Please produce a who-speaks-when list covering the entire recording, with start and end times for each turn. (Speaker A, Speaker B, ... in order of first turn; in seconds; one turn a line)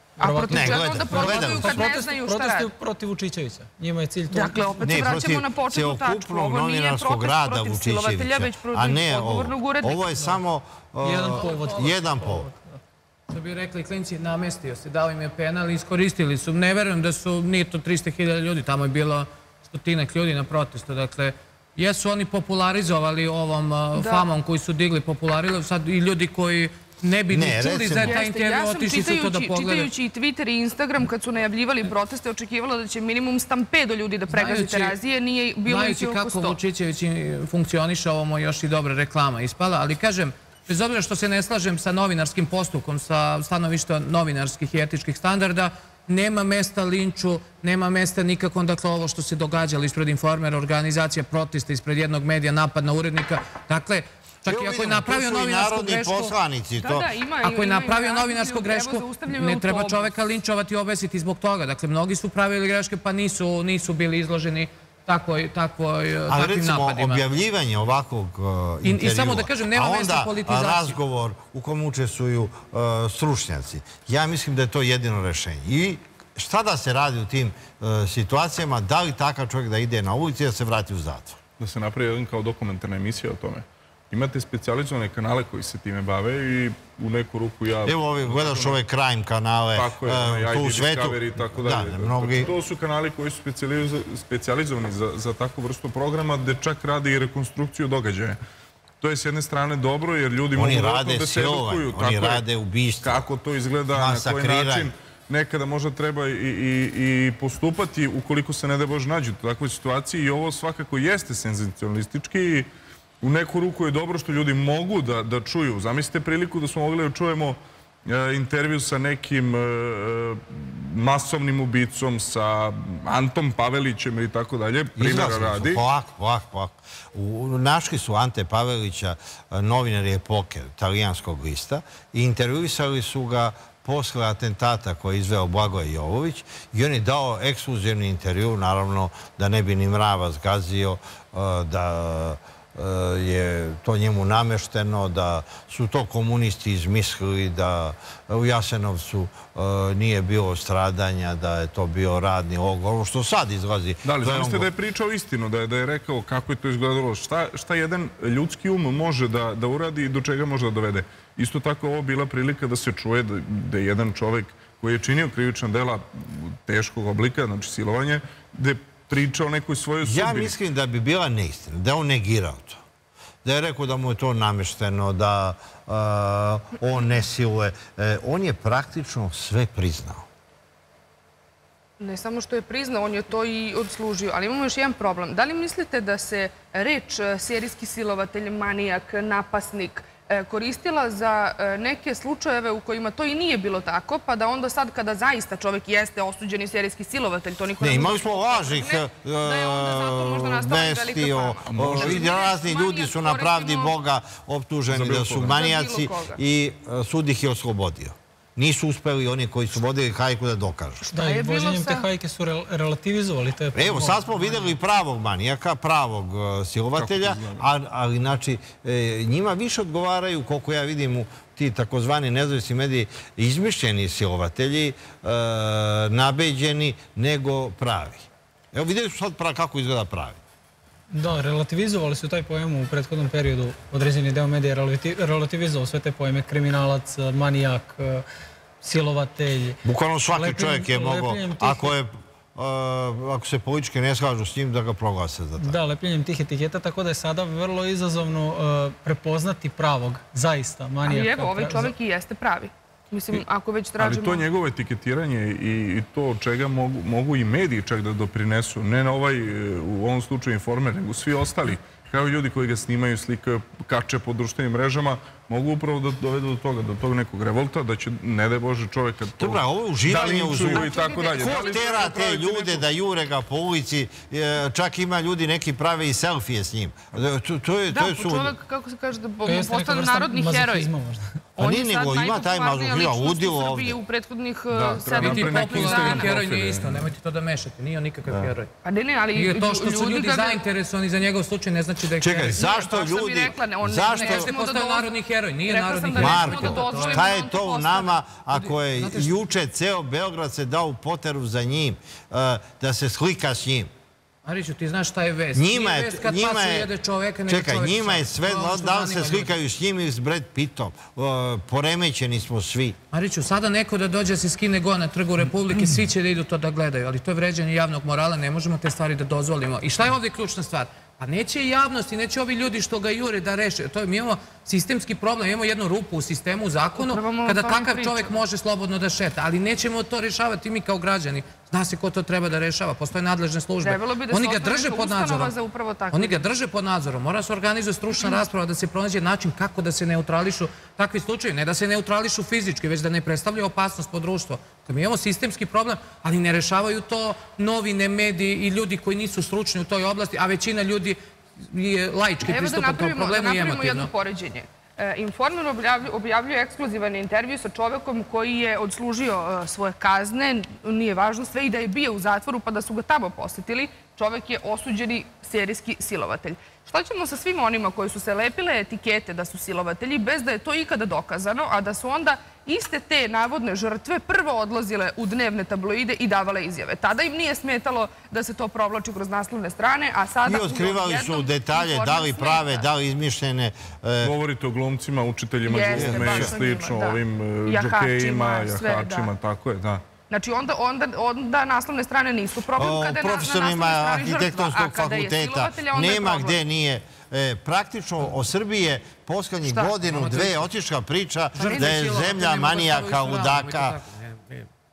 Speaker A: 0.2-5.2
Speaker B: 0.2-2.7
Speaker C: 0.5-1.9
Speaker B: 4.3-10.2
Speaker C: 4.8-12.5
Speaker A: 11.0-12.8
Speaker D: 11.4-11.9
Speaker D: 13.3-29.9
Speaker B: 23.9-24.3
Speaker C: 27.3-28.2
Speaker B: 28.0-36.6
Speaker D: 34.3-35.0
Speaker D: 35.6-56.3
Speaker C: 54.5-57.1
Speaker B: 56.8-60.1
Speaker D: 57.4-67.2
Speaker C: 66.3-81.4
Speaker D: 68.8-70.9
Speaker E: 81.6-88.8
Speaker C: 87.8-92.5
Speaker E: 89.8-98.4
Speaker E: 99.0-102.4
Speaker C: 100.5-103.2
Speaker E: 103.0-112.7
Speaker C: 103.9-104.9
Speaker E: 113.2-125.8
Speaker C: 125.0-154.7
Speaker E: 154.0-170.5
Speaker C: 170.0-172.8
Speaker C: 173.4-180.2
Speaker B: 182.0-203.9
Speaker C: 197.8-211.0
Speaker E: 201.7-202.2
Speaker E: 204.9-205.6
Speaker B: 205.4-206.4
Speaker B: 211.0-212.1
Speaker A: 211.1-214.7
Speaker C: 213.7-230.4
Speaker E: 216.9-217.6
Speaker A: 231.1-238.2
Speaker A: 238.8-239.8
Speaker C: 239.8-245.8
Speaker A: 240.3-241.9
Speaker A: 245.6-251.9
Speaker B: 251.0-254.4
Speaker E: 254.0-272.8
Speaker C: 269.4-278.5
Speaker B: 270.7-272.1
Speaker B: 277.9-280.9
Speaker A: 279.4-281.2
Speaker B: 281.6-286.4
Speaker C: 281.6-284.0
Speaker E: 284.7-287.1
Speaker D: 285.1-288.7
Speaker B: 288.8-290.6
Speaker D: 289.3-292.6
Speaker C: 292.2-294.5
Speaker B: 292.5-295.1
Speaker D: 294.1-297.3
Speaker B: 295.7-298.1
Speaker C: 296.1-303.9
Speaker D: 298.5-299.3
Speaker D: 304.4-309.5
Speaker C: 305.5-306.9
Speaker C: 307.5-313.0
Speaker D: 313.1-335.5
Speaker B: 326.9-328.4
Speaker B: 333.8-336.4
Speaker D: 336.1-354.1
Speaker B: 352.4-382.8
Speaker C: 380.4-384.3
Speaker E: 384.2-390.0
Speaker B: 385.6-389.3
Speaker C: 385.9-386.6
Speaker B: 390.3-396.6
Speaker C: 392.8-404.0
Speaker B: 399.7-399.9
Speaker D: 400.0-400.6
Speaker B: 401.6-402.3
Speaker D: 401.6-404.7